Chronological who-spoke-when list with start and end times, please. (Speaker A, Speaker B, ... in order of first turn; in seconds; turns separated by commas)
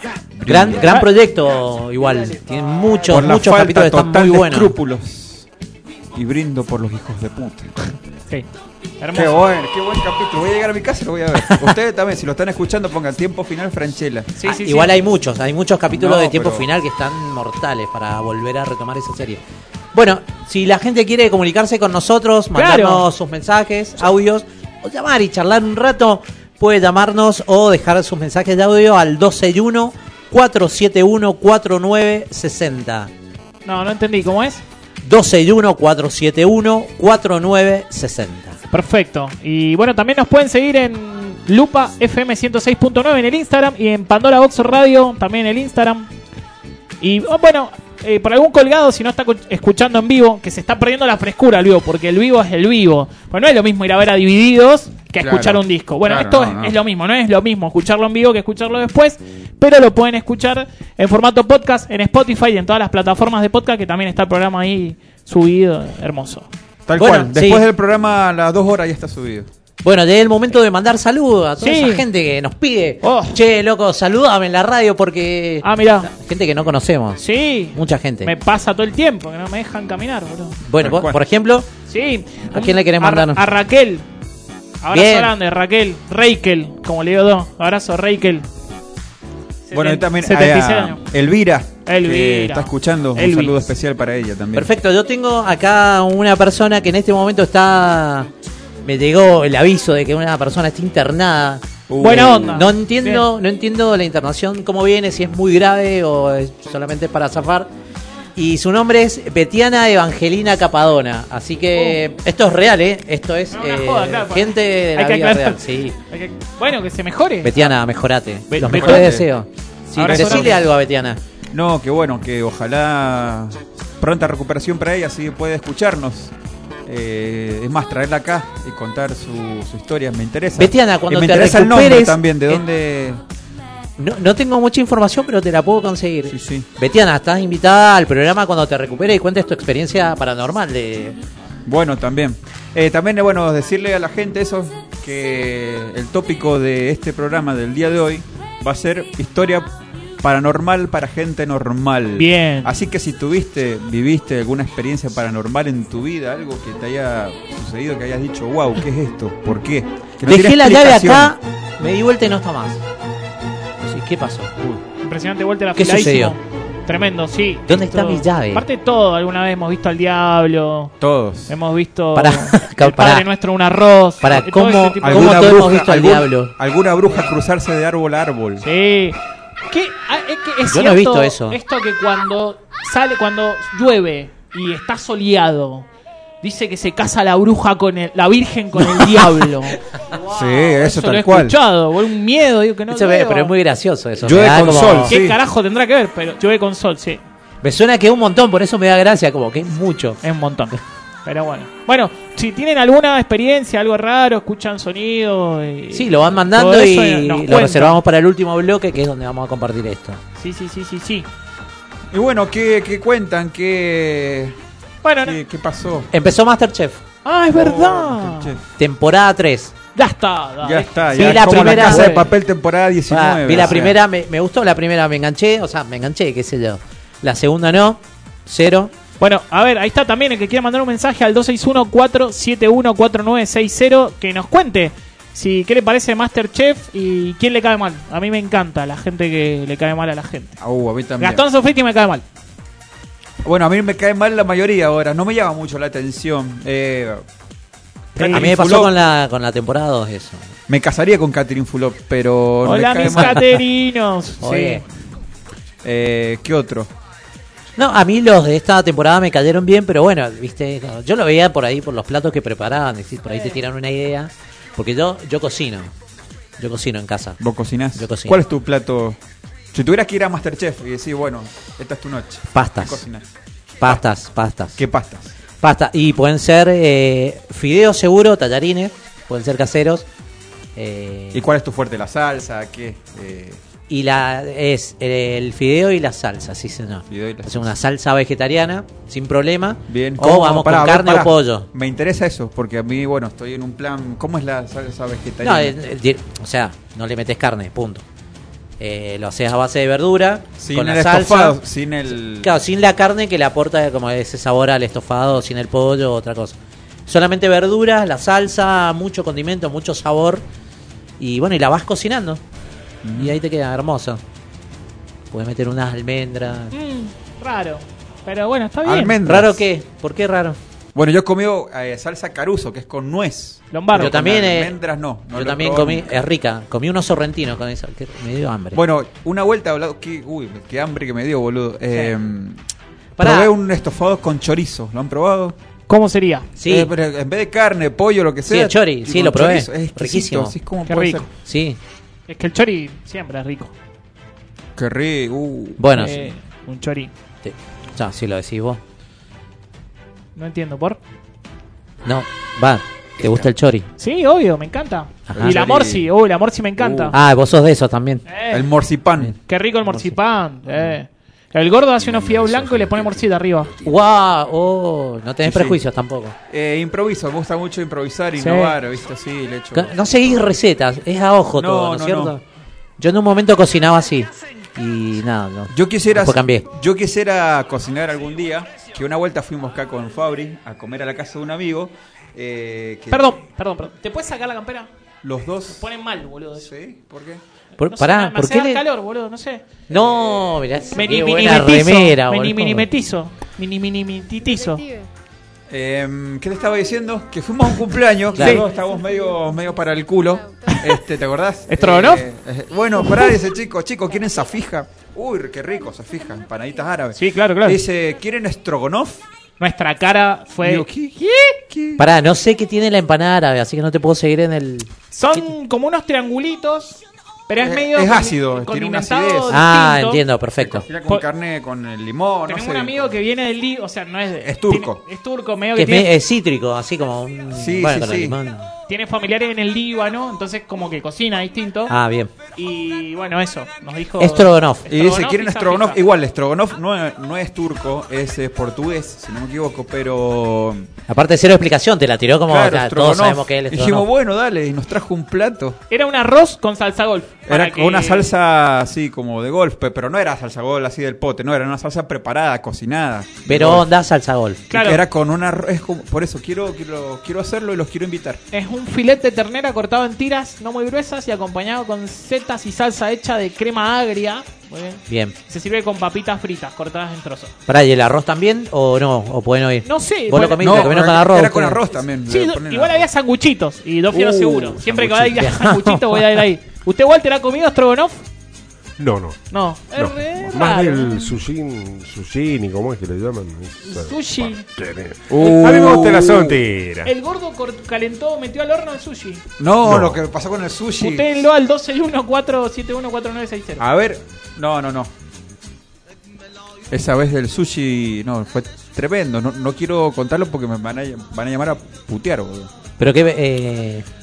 Speaker A: 0.3-0.9, Speaker B: 0.5-4.7, Speaker A: 3.1-5.5, Speaker A: 6.1-7.7, Speaker C: 9.0-9.4, Speaker A: 9.1-14.3, Speaker C: 14.4-15.0, Speaker B: 14.4-19.4, Speaker A: 15.9-16.7, Speaker B: 19.9-33.1, Speaker C: 22.6-23.1, Speaker C: 33.6-34.6, Speaker B: 35.0-38.6, Speaker C: 38.7-46.1, Speaker C: 47.0-66.5, Speaker A: 55.2-56.8, Speaker A: 66.9-69.5, Speaker B: 67.0-67.7, Speaker B: 69.8-78.3, Speaker C: 71.6-72.1, Speaker C: 73.0-73.4, Speaker C: 75.6-76.1, Speaker C: 77.2-80.6, Speaker B: 80.7-81.7, Speaker A: 80.8-81.2, Speaker C: 81.9-84.0, Speaker B: 82.5-83.5, Speaker C: 84.8-88.5, Speaker B: 84.9-85.3, Speaker C: 89.7-91.0, Speaker A: 89.7-94.7, Speaker C: 91.9-93.6, Speaker B: 94.5-98.3, Speaker B: 98.8-107.7, Speaker A: 101.9-102.7, Speaker C: 102.0-103.3, Speaker B: 108.4-116.0, Speaker C: 113.5-117.7, Speaker B: 117.4-121.2, Speaker C: 118.5-119.2, Speaker A: 118.6-119.3, Speaker C: 120.0-120.6, Speaker A: 120.0-120.7, Speaker A: 121.5-126.3, Speaker A: 126.9-133.2, Speaker B: 130.6-132.6, Speaker B: 134.0-141.2, Speaker A: 136.3-136.7, Speaker A: 141.7-149.7, Speaker A: 150.2-161.3, Speaker C: 152.2-152.7, Speaker B: 160.2-162.8, Speaker B: 163.8-164.8, Speaker C: 165.0-170.9, Speaker B: 165.8-166.4, Speaker B: 167.7-168.7, Speaker A: 171.0-171.5, Speaker C: 171.5-175.5, Speaker B: 172.2-173.3, Speaker B: 174.2-176.5, Speaker A: 175.0-178.7, Speaker C: 178.6-185.9, Speaker B: 180.7-181.6, Speaker C: 186.4-193.5, Speaker A: 190.3-191.6, Speaker B: 192.9-195.2, Speaker A: 194.2-195.4, Speaker C: 195.1-197.2, Speaker B: 197.6-200.8, Speaker C: 200.2-208.0, Speaker B: 205.9-210.2, Speaker C: 210.4-211.3, Speaker A: 212.1-214.6, Speaker C: 215.0-215.4, Speaker A: 215.2-216.1, Speaker B: 216.1-217.0, Speaker C: 217.2-218.6, Speaker A: 217.5-218.6, Speaker B: 218.8-219.7, Speaker C: 220.0-222.3, Speaker A: 220.6-224.0, Speaker B: 221.2-222.2, Speaker B: 223.1-228.9, Speaker C: 229.2-240.6, Speaker A: 240.6-241.4, Speaker C: 241.2-242.2, Speaker A: 243.4-247.2, Speaker C: 248.2-248.5, Speaker A: 248.2-248.9, Speaker B: 248.3-250.5, Speaker A: 250.7-253.5, Speaker C: 252.6-254.8, Speaker B: 253.1-253.4, Speaker B: 254.4-254.8, Speaker A: 255.8-256.9, Speaker B: 257.8-265.9, Speaker C: 263.3-263.6, Speaker B: 266.6-267.4, Speaker A: 267.4-269.2, Speaker B: 267.9-268.4, Speaker A: 269.7-273.3, Speaker B: 272.5-273.0, Speaker B: 273.8-274.8, Speaker A: 274.8-275.3, Speaker B: 275.6-280.1, Speaker B: 280.8-281.5, Speaker A: 281.3-283.6, Speaker B: 283.9-291.7, Speaker A: 287.1-287.7, Speaker A: 289.9-295.8, Speaker B: 295.4-298.1, Speaker B: 298.8-301.6, Speaker A: 300.6-302.5, Speaker B: 302.3-310.4, Speaker B: 311.2-312.4, Speaker A: 313.0-313.4, Speaker B: 313.1-314.2, Speaker B: 315.3-316.7, Speaker C: 316.7-319.2, Speaker A: 318.9-319.6, Speaker B: 319.2-320.6, Speaker A: 320.9-326.1, Speaker C: 323.7-324.2, Speaker B: 323.9-324.8, Speaker B: 325.3-328.8, Speaker A: 328.7-332.6, Speaker B: 333.2-333.5, Speaker A: 333.2-335.6, Speaker C: 335.9-336.5, Speaker B: 336.6-336.9, Speaker A: 336.7-341.3, Speaker B: 338.5-340.6, Speaker C: 340.9-341.3, Speaker B: 341.4-341.8, Speaker C: 342.3-343.7, Speaker A: 344.8-345.8, Speaker B: 345.8-346.3, Speaker C: 345.9-347.1, Speaker B: 347.4-348.8, Speaker C: 350.4-351.0, Speaker B: 352.1-353.9, Speaker C: 354.0-357.1, Speaker B: 355.3-355.6, Speaker A: 355.3-356.1, Speaker A: 356.8-357.1, Speaker B: 357.1-358.2, Speaker C: 358.3-358.7, Speaker A: 358.5-359.4, Speaker C: 359.5-363.7, Speaker D: 362.0-363.2, Speaker B: 363.8-366.4, Speaker A: 365.4-365.8, Speaker A: 366.5-370.5, Speaker C: 368.4-368.7, Speaker B: 369.7-372.4, Speaker A: 371.6-372.4, Speaker B: 373.0-376.7, Speaker A: 375.7-383.4, Speaker C: 383.1-384.9, Speaker A: 385.2-385.8, Speaker C: 385.7-386.7, Speaker A: 386.6-387.4, Speaker B: 387.8-388.8, Speaker C: 387.8-389.7, Speaker A: 389.9-390.6, Speaker B: 389.9-392.9, Speaker C: 390.9-394.8, Speaker A: 395.7-409.2, Speaker B: 398.3-398.7, Speaker C: 398.4-398.6, Speaker C: 401.7-402.2, Speaker C: 407.1-407.8, Speaker C: 409.6-411.4, Speaker A: 410.6-412.1, Speaker B: 412.0-415.5, Speaker C: 415.1-420.2, Speaker A: 417.6-419.6, Speaker B: 419.5-420.9, Speaker A: 420.6-423.1, Speaker C: 422.5-426.1, Speaker A: 424.4-425.0, Speaker B: 425.8-428.7, Speaker A: 427.5-428.4, Speaker C: 428.9-431.9, Speaker B: 431.9-432.3, Speaker C: 432.6-436.0, Speaker B: 434.2-434.9, Speaker A: 434.9-440.9, Speaker B: 441.1-444.1, Speaker A: 442.5-445.8, Speaker C: 445.9-448.3, Speaker A: 447.5-453.9, Speaker B: 453.5-454.6, Speaker C: 454.7-455.0, Speaker A: 454.7-458.4, Speaker C: 458.5-467.5, Speaker B: 465.1-465.4, Speaker B: 467.7-471.8, Speaker C: 469.9-471.0, Speaker A: 470.6-473.0, Speaker C: 472.3-478.2, Speaker A: 474.1-474.9, Speaker B: 474.9-476.4, Speaker D: 479.0-479.4, Speaker C: 479.5-481.3, Speaker D: 479.9-487.1, Speaker C: 483.8-484.7, Speaker A: 485.3-486.6, Speaker C: 487.0-489.4, Speaker A: 489.6-491.4, Speaker D: 489.8-490.2, Speaker C: 491.0-493.8, Speaker A: 493.8-495.1, Speaker A: 496.9-502.7, Speaker B: 503.0-504.1